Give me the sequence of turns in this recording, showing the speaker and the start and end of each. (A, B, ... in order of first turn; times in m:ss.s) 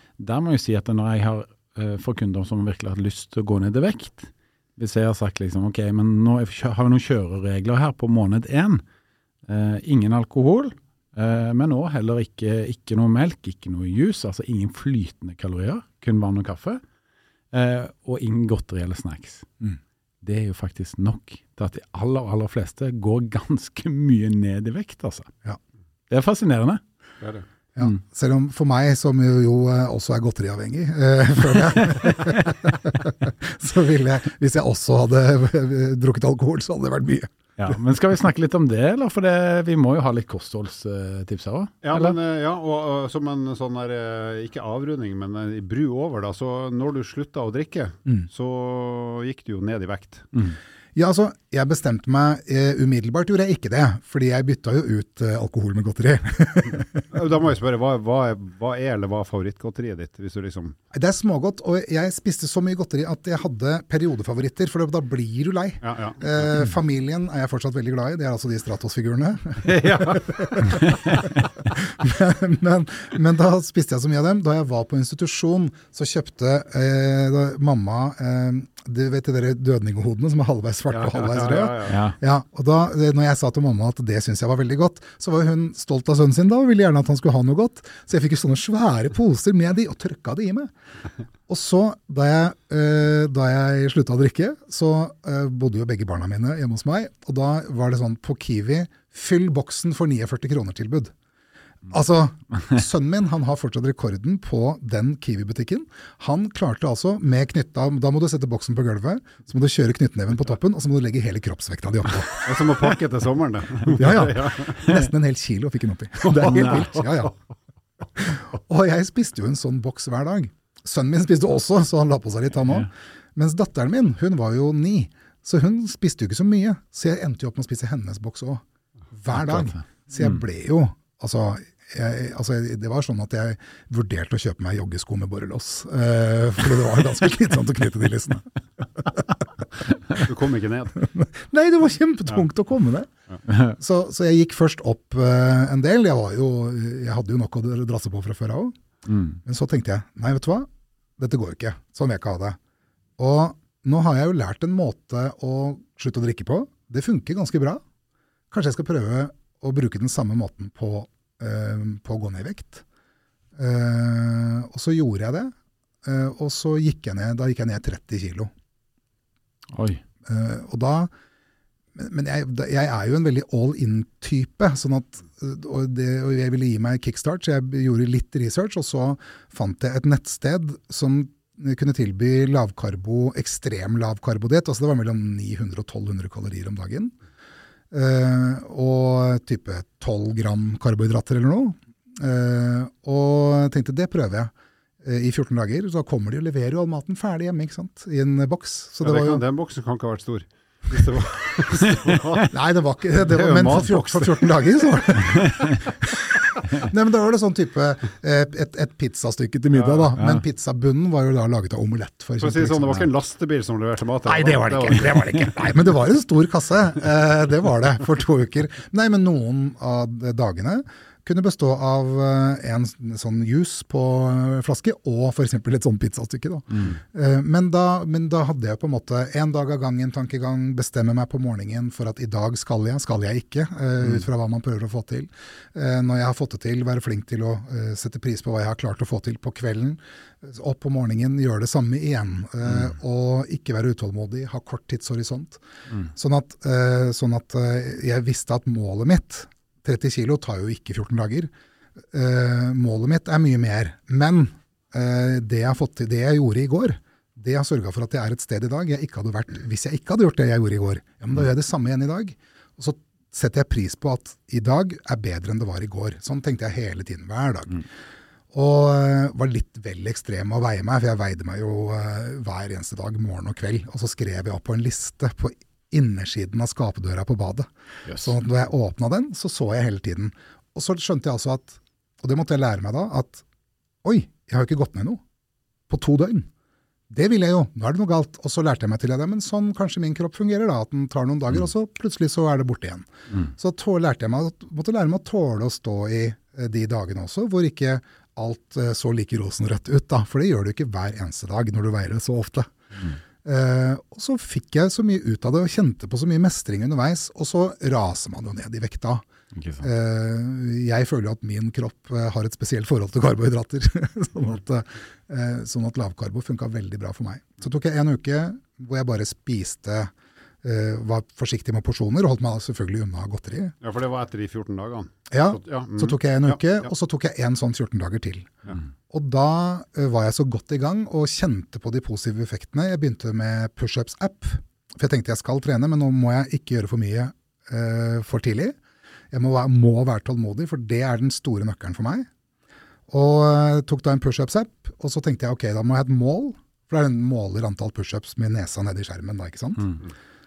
0:00.2-0:08.8 A
0:09.5-0:16.8 A
0:17.5-0:19.5 A
0:20.2-0:25.3 A
0:26.1-0:26.8 A
0:27.7-0:37.8 B
0:37.6-0:42.2 A
0:41.8-0:50.3 C
0:50.9-0:57.1 B
0:57.1-1:00.8 C
1:00.9-1:30.7 B
1:05.8-1:06.3 C
1:09.6-1:10.7 C
1:10.7-1:11.2 A
1:20.9-1:22.0 C
1:21.9-1:22.2 A
1:31.5-1:41.1 B
1:41.9-1:52.8 B
1:52.4-1:54.8 C
1:53.9-1:57.3 B
1:56.3-1:57.3 C
1:56.5-1:56.8 A
1:58.1-2:19.4 B
2:09.5-2:09.8 A
2:20.1-2:21.1 C
2:21.0-2:23.1 B
2:23.7-2:28.7 B
2:29.1-2:29.4 A
2:29.4-2:32.6 B
2:33.2-2:37.8 B
2:38.5-2:42.8 B
2:43.6-2:48.5 B
2:49.7-2:50.0 A
2:50.2-2:51.1 B
2:51.9-3:07.1 B
3:07.9-3:19.4 B
3:19.0-3:22.5 C
3:22.4-3:33.0 B
3:23.2-3:25.1 C
3:29.7-3:30.1 C
3:30.2-3:30.4 A
3:32.4-3:35.5 C
3:34.2-4:05.6 B
3:46.7-3:47.0 A
4:06.1-4:11.5 B
4:12.1-4:27.9 B
4:28.5-4:43.4 B
4:38.1-4:38.3 A
4:44.0-4:45.2 B
4:45.9-4:46.5 B
4:47.1-5:02.7 B
5:03.4-5:09.2 B
5:09.6-5:09.9 A
5:09.8-5:23.7 B
5:23.8-5:26.9 C
5:25.3-5:38.8 B
5:39.3-5:42.3 B
5:43.1-5:50.0 B